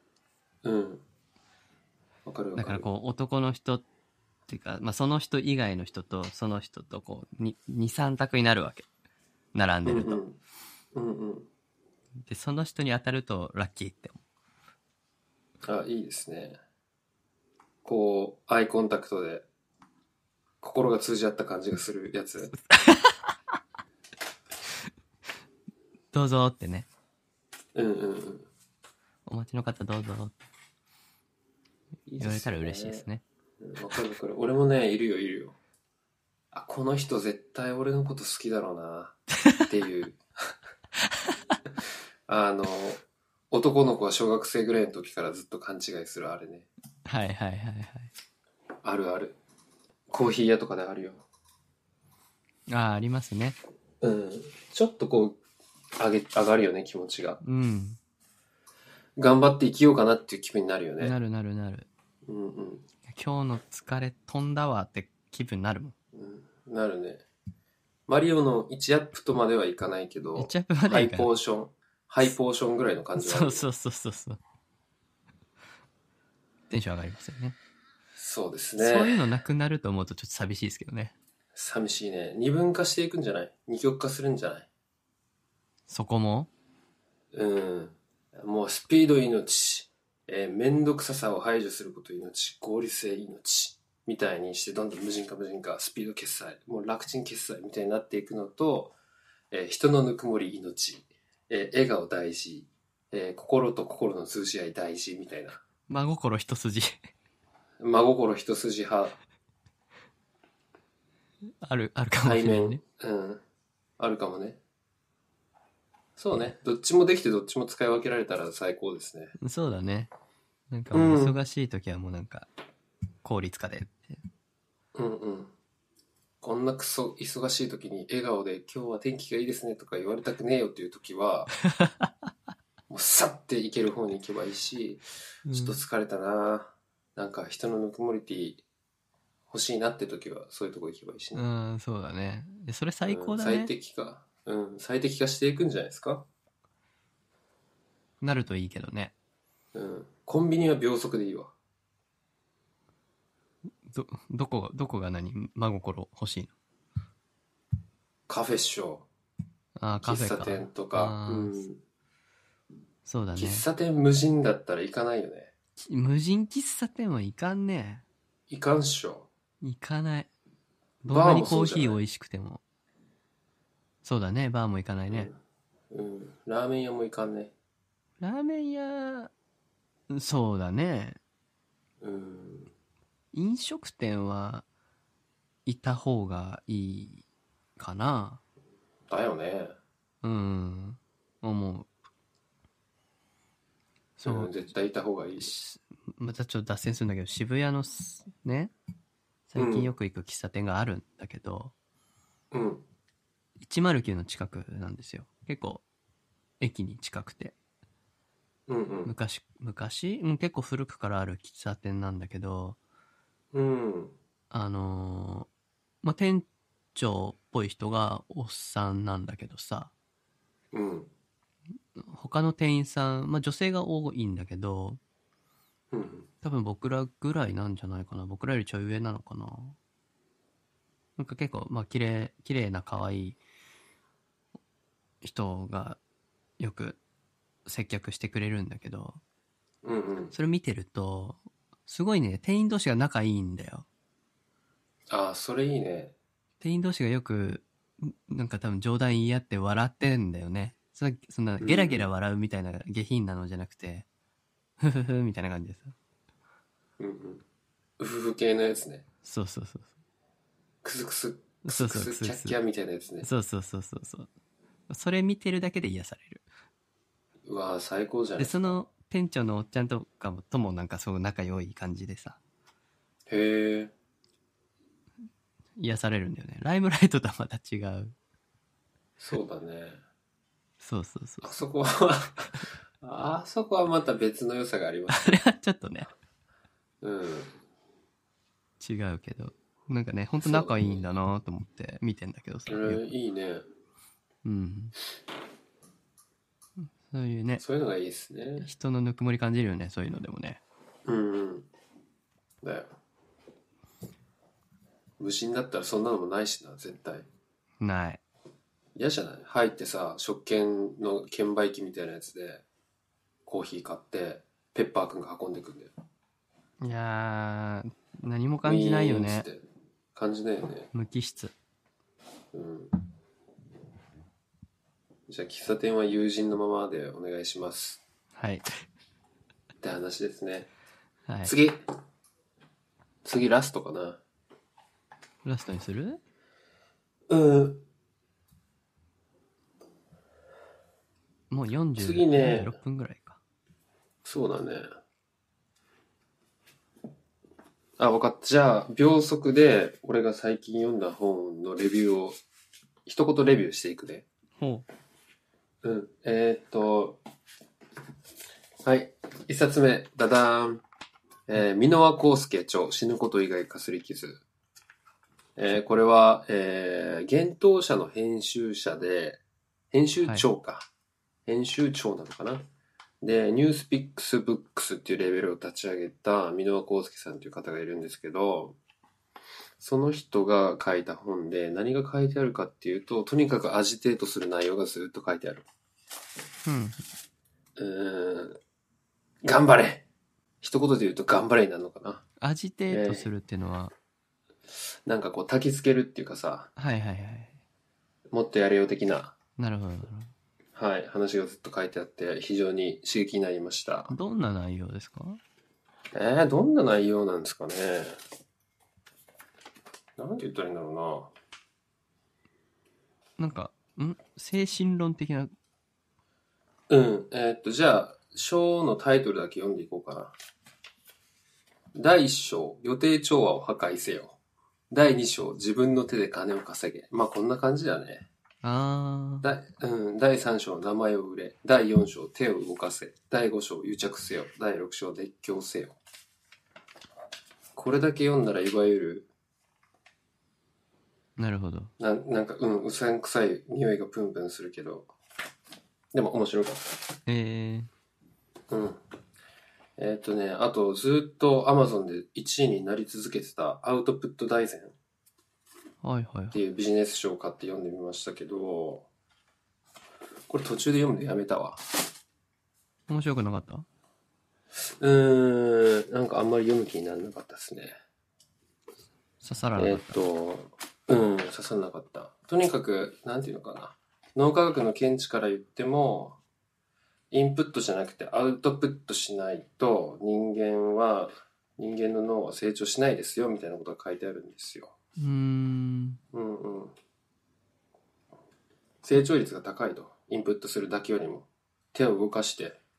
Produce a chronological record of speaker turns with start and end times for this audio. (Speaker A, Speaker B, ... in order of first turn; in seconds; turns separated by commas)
Speaker A: 0.6-1.0, Speaker A: 2.3-2.9, Speaker B: 2.6-3.9, Speaker B: 4.5-8.9, Speaker B: 9.5-10.2, Speaker A: 9.9-10.4, Speaker A: 10.9-11.5, Speaker B: 12.3-14.2, Speaker A: 15.6-16.6, Speaker A: 17.9-19.4, Speaker A: 20.6-22.5, Speaker B: 22.6-23.3, Speaker B: 26.1-26.9, Speaker A: 27.8-28.5, Speaker B: 29.3-30.4, Speaker A: 32.1-33.1, Speaker B: 32.2-33.2, Speaker A: 33.6-35.6, Speaker A: 36.5-40.2, Speaker A: 42.3-46.7, Speaker B: 47.0-48.1, Speaker A: 48.8-49.4, Speaker A: 50.1-51.2, Speaker B: 52.7-53.6, Speaker A: 54.0-55.4, Speaker A: 56.0-57.4, Speaker B: 57.4-58.0, Speaker A: 59.2-61.1, Speaker B: 61.0-61.9, Speaker A: 62.3-62.9, Speaker B: 63.1-66.0, Speaker A: 66.1-67.2, Speaker A: 68.1-73.7, Speaker B: 70.3-71.3, Speaker B: 73.2-74.4, Speaker B: 76.7-77.6, Speaker A: 78.2-79.2, Speaker B: 78.8-81.2, Speaker A: 81.5-84.7, Speaker B: 85.9-86.5, Speaker A: 87.3-99.0, Speaker A: 99.5-105.6, Speaker B: 105.9-107.0, Speaker A: 107.8-109.2, Speaker B: 111.6-112.8, Speaker A: 112.2-113.4, Speaker A: 114.0-114.6, Speaker A: 116.2-119.3, Speaker B: 119.4-120.1, Speaker B: 120.7-122.5, Speaker A: 120.9-121.4, Speaker B: 123.2-124.2, Speaker A: 125.0-125.5, Speaker A: 126.4-131.5, Speaker B: 131.7-132.1, Speaker A: 132.9-138.6, Speaker B: 135.5-135.8, Speaker A: 139.5-141.4, Speaker B: 141.3-143.7, Speaker A: 143.1-146.3, Speaker B: 148.2-149.1, Speaker A: 149.7-151.5, Speaker B: 153.9-156.5, Speaker A: 158.3-159.1, Speaker B: 159.8-161.7, Speaker A: 160.0-161.8, Speaker B: 163.1-163.7, Speaker A: 163.4-165.5, Speaker B: 165.8-168.0, Speaker A: 168.5-169.3, Speaker B: 169.6-170.3, Speaker B: 171.0-172.6, Speaker A: 171.1-172.0, Speaker B: 174.0-175.3, Speaker A: 175.1-175.4, Speaker A: 175.9-177.5, Speaker B: 178.2-179.3, Speaker B: 180.1-181.2, Speaker A: 182.0-182.7, Speaker B: 183.3-184.7, Speaker B: 185.7-187.2, Speaker B: 187.8-188.4, Speaker A: 189.1-189.8, Speaker B: 190.2-191.9, Speaker B: 194.2-194.5, Speaker A: 194.2-195.5, Speaker B: 195.4-198.7, Speaker B: 199.5-201.7, Speaker A: 199.6-199.9, Speaker A: 202.5-202.8, Speaker B: 203.6-205.8, Speaker B: 206.6-207.6, Speaker A: 208.7-209.1, Speaker B: 209.1-212.8, Speaker A: 213.5-214.2, Speaker B: 214.5-215.5, Speaker B: 216.0-219.9, Speaker A: 220.7-221.1, Speaker B: 222.0-225.0, Speaker A: 225.9-226.3, Speaker B: 226.4-229.8, Speaker B: 231.2-233.4, Speaker B: 235.2-236.0, Speaker B: 236.6-237.0, Speaker B: 237.7-239.2, Speaker A: 239.8-240.3, Speaker B: 240.3-243.9, Speaker A: 245.1-246.1, Speaker B: 246.6-254.1, Speaker A: 251.6-252.1, Speaker B: 254.8-255.9, Speaker A: 257.0-257.4, Speaker A: 258.0-259.1, Speaker B: 259.2-259.9, Speaker A: 260.8-263.3, Speaker B: 261.6-262.6, Speaker B: 263.2-264.3, Speaker B: 264.9-266.4, Speaker A: 267.4-268.7, Speaker B: 268.4-272.4, Speaker A: 273.3-273.9, Speaker B: 275.8-278.1, Speaker A: 279.2-280.0, Speaker B: 280.8-281.6, Speaker A: 281.4-285.4, Speaker B: 285.1-286.1, Speaker A: 287.0-287.6, Speaker B: 288.8-293.1, Speaker A: 290.4-291.0, Speaker A: 292.7-293.6, Speaker B: 294.4-295.0, Speaker B: 297.1-297.6, Speaker A: 297.6-298.7, Speaker B: 298.6-300.6, Speaker A: 301.1-301.7, Speaker A: 302.6-302.9, Speaker A: 305.2-307.3, Speaker B: 307.8-308.2, Speaker A: 309.0-312.6, Speaker A: 313.5-315.9, Speaker B: 316.8-319.5, Speaker A: 318.6-319.6, Speaker A: 320.1-320.9, Speaker B: 320.9-321.5, Speaker A: 322.5-323.0, Speaker A: 325.3-328.0, Speaker B: 328.4-328.7, Speaker A: 329.8-330.7, Speaker B: 331.3-331.5, Speaker A: 331.4-331.8, Speaker A: 333.2-334.2, Speaker B: 335.4-336.2, Speaker A: 337.3-337.8, Speaker B: 341.5-343.4, Speaker A: 342.0-342.8, Speaker A: 344.2-344.9, Speaker A: 348.0-352.4, Speaker A: 353.1-354.3, Speaker B: 354.6-354.9, Speaker A: 355.8-357.2, Speaker A: 358.8-360.8, Speaker A: 361.5-364.4, Speaker A: 365.6-370.9, Speaker A: 371.5-372.6, Speaker A: 373.2-378.8, Speaker A: 379.8-385.6, Speaker B: 386.6-387.0, Speaker A: 387.8-388.6, Speaker A: 389.4-390.0, Speaker A: 390.6-392.2, Speaker B: 392.4-393.9, Speaker A: 392.9-393.3, Speaker A: 395.1-396.7, Speaker B: 396.8-397.6, Speaker A: 398.3-399.4, Speaker B: 399.6-400.3, Speaker A: 400.8-404.1, Speaker B: 404.1-405.4, Speaker A: 406.1-408.2, Speaker A: 410.2-411.3, Speaker B: 413.4-415.5, Speaker A: 416.9-420.4, Speaker A: 421.9-424.4, Speaker A: 424.9-428.3, Speaker B: 428.6-429.5, Speaker A: 429.4-436.0, Speaker A: 437.8-439.3, Speaker B: 441.4-441.9, Speaker A: 442.0-445.1, Speaker A: 446.1-447.1, Speaker B: 447.3-447.9, Speaker A: 448.7-449.0, Speaker A: 450.0-454.9, Speaker B: 456.0-456.6, Speaker A: 456.5-459.1, Speaker A: 460.5-462.1, Speaker B: 463.1-463.9, Speaker A: 464.8-467.9, Speaker B: 469.4-470.2, Speaker A: 469.8-476.4, Speaker A: 477.3-484.9, Speaker B: 485.2-486.2, Speaker A: 486.3-486.9, Speaker A: 489.0-492.8